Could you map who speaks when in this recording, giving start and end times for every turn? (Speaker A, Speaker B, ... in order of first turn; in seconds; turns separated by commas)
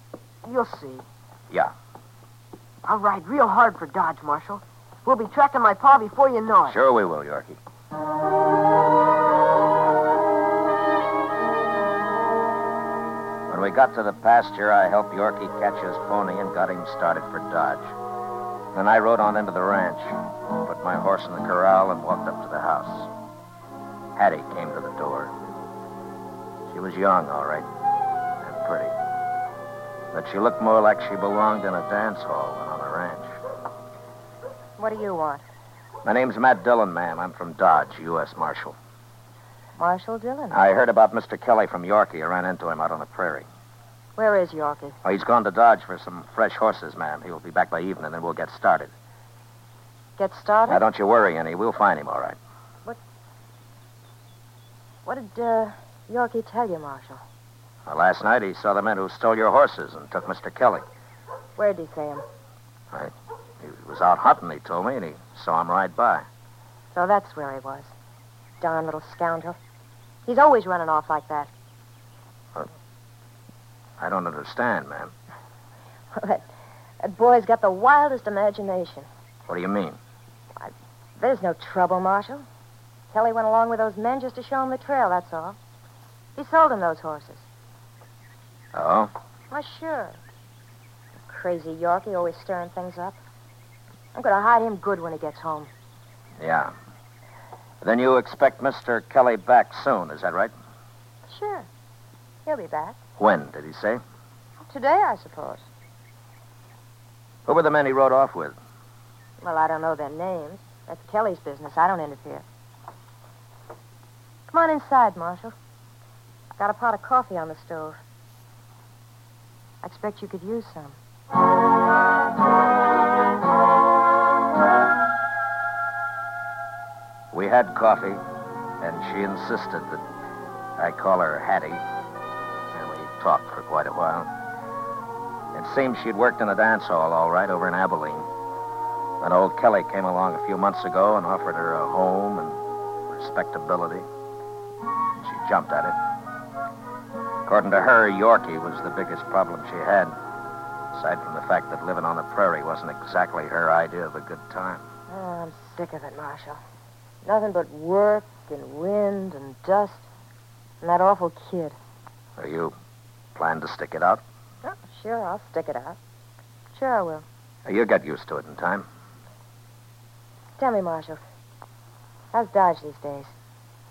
Speaker A: 0.4-1.1, Speaker A: 2.8-6.8, Speaker B: 6.7-7.6, Speaker B: 13.5-17.9, Speaker B: 18.7-23.1, Speaker B: 24.1-25.3, Speaker B: 26.7-27.7, Speaker B: 28.4-28.9, Speaker B: 30.1-33.3, Speaker C: 34.8-35.4, Speaker B: 36.0-38.8, Speaker C: 39.8-40.6, Speaker B: 40.5-43.5, Speaker C: 44.2-45.0, Speaker B: 45.0-48.9, Speaker C: 50.2-50.8, Speaker B: 50.7-52.4, Speaker C: 55.0-57.2, Speaker B: 57.9-60.8, Speaker C: 61.6-62.2, Speaker B: 62.9-66.2, Speaker C: 66.9-67.9, Speaker C: 68.6-69.6, Speaker C: 70.2-71.5, Speaker B: 74.0-75.1, Speaker C: 76.1-76.4, Speaker C: 77.0-79.1, Speaker B: 79.5-80.0, Speaker C: 80.6-82.4, Speaker C: 83.1-85.6, Speaker C: 86.3-87.5, Speaker B: 88.7-89.1, Speaker C: 89.5-90.2, Speaker C: 91.3-93.2, Speaker C: 94.1-95.7, Speaker B: 96.4-96.7, Speaker B: 97.8-100.5, Speaker C: 101.3-101.7, Speaker C: 102.5-103.0, Speaker B: 103.2-104.0, Speaker C: 104.6-105.7, Speaker B: 107.5-108.6, Speaker C: 109.4-112.4, Speaker C: 114.5-115.5, Speaker C: 116.6-118.0, Speaker C: 119.8-121.0, Speaker B: 127.3-128.2, Speaker B: 128.8-130.0, Speaker B: 130.8-131.8, Speaker B: 132.7-134.3, Speaker B: 135.5-138.3, Speaker B: 139.2-144.0, Speaker B: 145.2-145.9, Speaker B: 147.4-150.1, Speaker B: 150.9-154.8, Speaker C: 155.1-156.6, Speaker C: 157.2-160.1, Speaker C: 160.8-161.8, Speaker B: 162.4-162.7, Speaker B: 163.3-164.2, Speaker C: 164.6-166.0, Speaker C: 166.7-167.2, Speaker B: 167.7-168.8, Speaker C: 170.6-171.2, Speaker C: 172.3-173.3